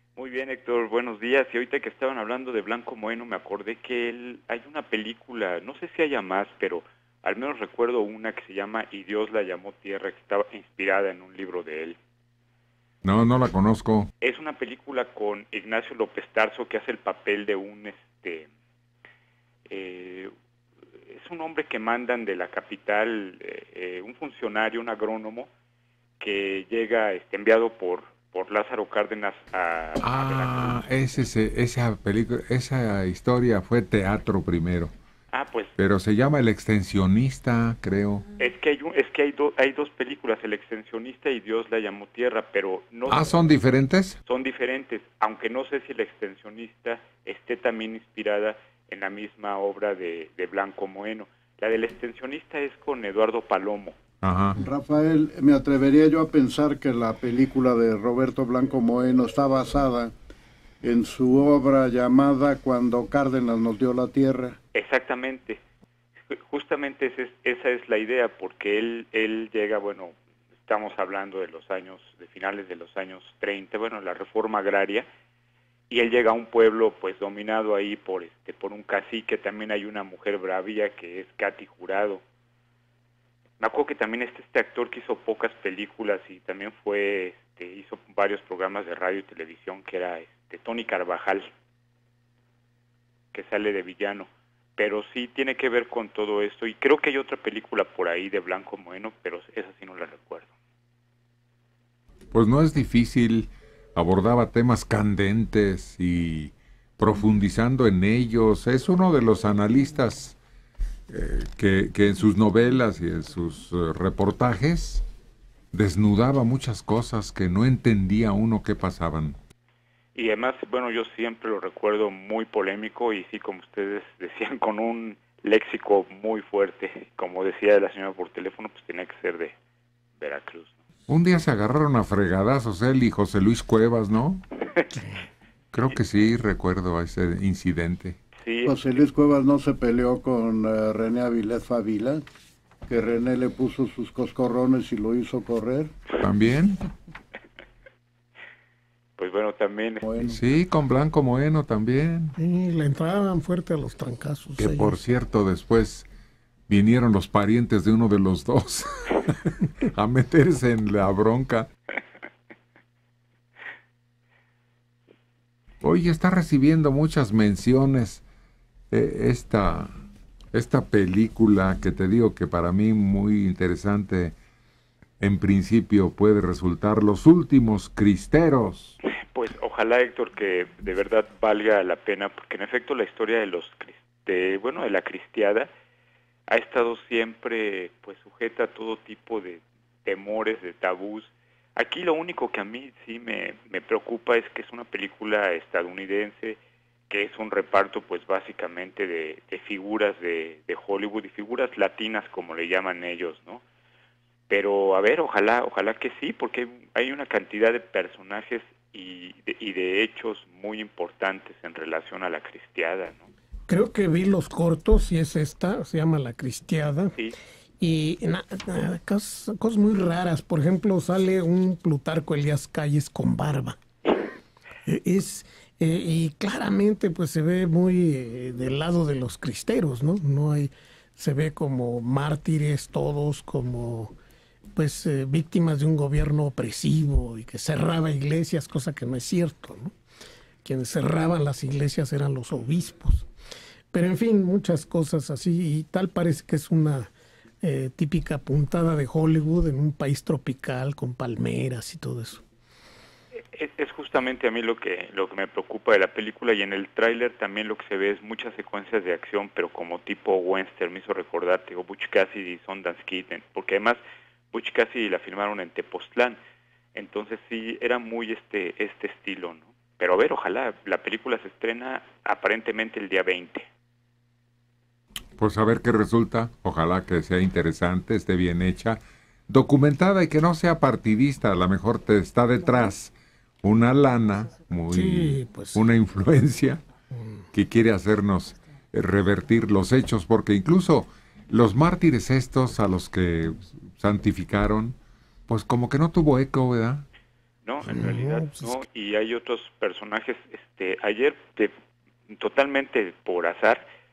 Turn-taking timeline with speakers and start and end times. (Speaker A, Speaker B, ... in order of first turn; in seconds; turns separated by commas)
Speaker A: 0.1-12.0, Speaker B: 13.0-14.1, Speaker A: 14.2-18.5, Speaker A: 19.7-20.3, Speaker A: 21.0-25.5, Speaker A: 26.2-30.9, Speaker B: 30.0-34.9, Speaker A: 35.3-35.7, Speaker B: 35.8-38.2, Speaker A: 38.4-43.5, Speaker B: 43.1-44.2, Speaker A: 44.2-54.0, Speaker B: 54.2-54.6, Speaker C: 54.6-60.1, Speaker C: 60.8-64.6, Speaker A: 64.7-65.6, Speaker A: 66.3-70.1, Speaker A: 70.7-75.0, Speaker A: 75.9-82.2, Speaker A: 83.6-91.5, Speaker A: 93.3-100.5, Speaker B: 102.3-110.4, Speaker B: 111.1-115.0, Speaker B: 115.7-119.4, Speaker A: 120.1-129.5, Speaker A: 130.2-130.8, Speaker B: 131.1-134.4, Speaker A: 134.8-135.0, Speaker B: 135.7-138.2, Speaker A: 138.4-138.7, Speaker C: 138.7-142.2, Speaker C: 142.9-145.9, Speaker B: 146.2-146.8, Speaker A: 149.2-150.0, Speaker C: 150.0-150.4, Speaker B: 150.2-152.3, Speaker D: 152.4-155.0, Speaker B: 154.6-156.1, Speaker B: 156.7-161.7, Speaker B: 165.8-168.2, Speaker B: 168.9-169.9, Speaker B: 170.5-174.3, Speaker B: 175.2-179.0, Speaker A: 179.2-185.7, Speaker A: 186.5-196.6, Speaker A: 197.1-203.6, Speaker A: 204.5-213.3, Speaker D: 213.7-217.1, Speaker D: 217.8-223.8, Speaker D: 224.8-234.1, Speaker D: 234.7-239.9, Speaker D: 240.6-243.3, Speaker D: 243.9-252.4, Speaker A: 253.5-264.0, Speaker A: 264.5-266.4, Speaker A: 266.9-273.7, Speaker B: 275.4-286.8, Speaker D: 284.9-285.8, Speaker B: 287.5-294.9, Speaker B: 295.5-297.0, Speaker A: 297.6-301.7, Speaker D: 297.9-298.7, Speaker A: 302.3-303.8